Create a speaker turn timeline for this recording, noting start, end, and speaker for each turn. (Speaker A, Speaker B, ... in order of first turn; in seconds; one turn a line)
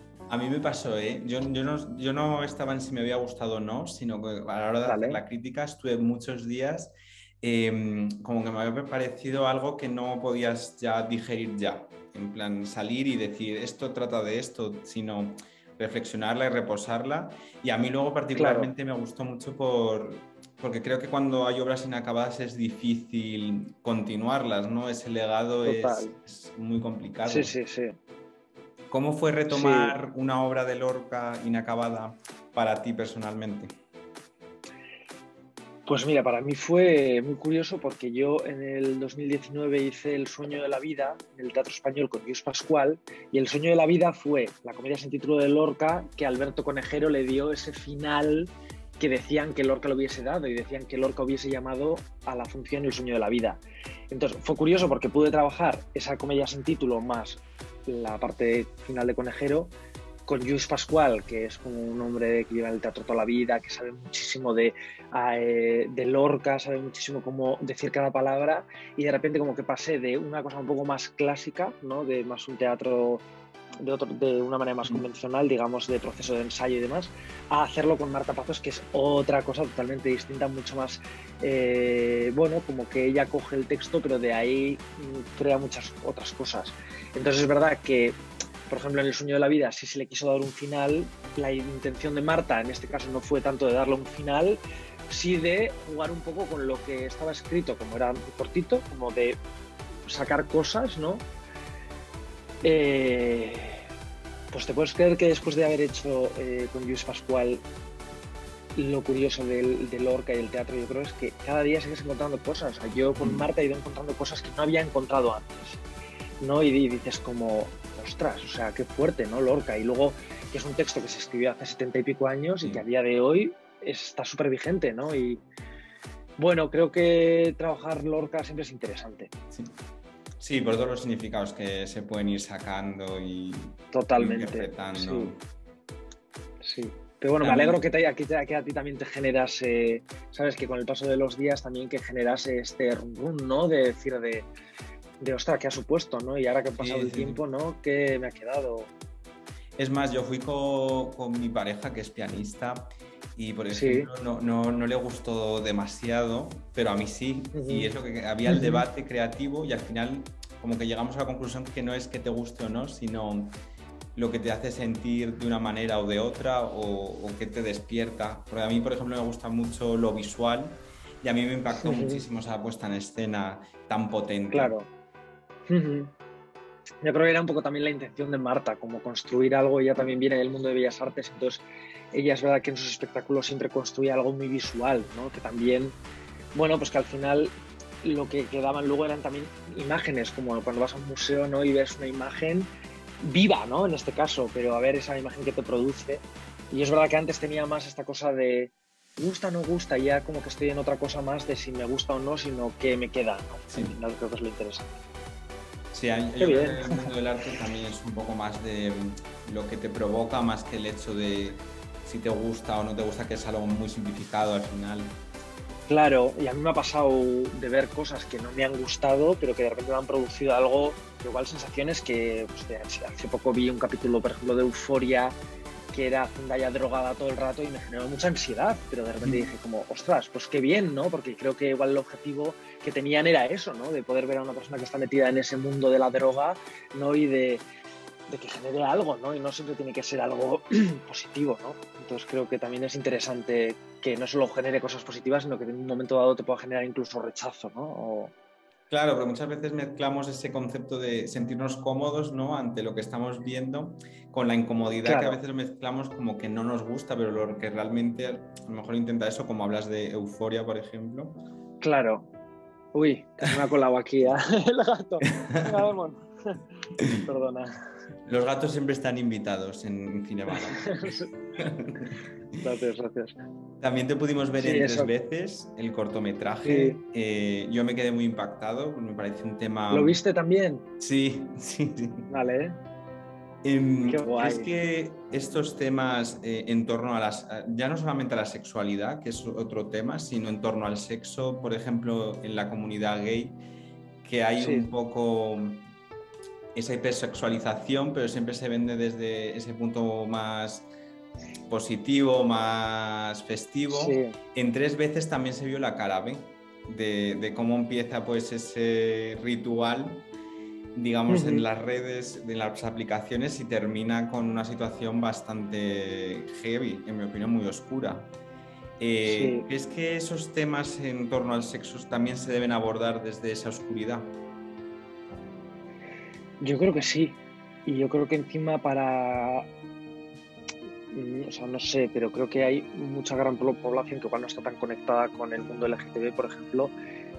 Speaker A: 0.3-27.5
Speaker B: 4.8-5.2
Speaker B: 18.4-18.7
Speaker B: 25.6-26.1
Speaker B: 27.2-28.0
Speaker A: 28.9-33.8
Speaker B: 29.5-29.9
Speaker B: 35.9-59.7
Speaker B: 60.3-73.2
Speaker B: 73.8-99.4
Speaker B: 100.1-101.2
Speaker B: 102.6-103.8
Speaker B: 104.5-107.6
Speaker B: 108.8-115.8
Speaker A: 113.2-113.5
Speaker B: 116.4-125.4
Speaker B: 126.4-129.3
Speaker A: 130.4-135.4
Speaker B: 133.9-135.3
Speaker B: 136.6-144.5
Speaker A: 137.4-137.8
Speaker B: 145.2-148.9
Speaker A: 146.8-147.4
Speaker A: 149.8-163.6
Speaker B: 153.7-154.1
Speaker B: 157.5-157.9
Speaker B: 158.5-158.8
Speaker A: 164.2-174.7
Speaker B: 171.8-172.2
Speaker B: 174.5-174.9
Speaker B: 175.7-176.1
Speaker B: 177.0-186.0
Speaker B: 186.5-205.0
Speaker A: 203.7-204.0
Speaker A: 205.9-215.2
Speaker B: 206.4-207.1
Speaker B: 215.9-225.4
Speaker B: 225.9-237.6
Speaker B: 238.3-248.3
Speaker A: 248.9-261.4
Speaker B: 255.0-255.4
Speaker B: 261.8-262.3
Speaker B: 262.9-266.6
Speaker B: 267.1-267.7
Speaker A: 268.3-272.2
Speaker B: 270.8-271.3
Speaker B: 272.6-273.4
Speaker A: 273.8-280.2
Speaker B: 274.6-275.1
Speaker B: 276.6-277.0
Speaker B: 279.9-280.9
Speaker A: 281.0-282.3
Speaker B: 282.3-282.8
Speaker A: 283.6-293.6
Speaker B: 284.1-284.7
Speaker A: 294.2-295.8
Speaker B: 294.6-294.9
Speaker A: 296.8-300.9
Speaker A: 301.7-310.3
Speaker B: 303.9-304.4
Speaker A: 310.9-318.3
Speaker B: 311.3-311.7
Speaker A: 319.0-324.3
Speaker B: 319.2-319.7
Speaker B: 326.6-329.7
Speaker B: 331.1-336.9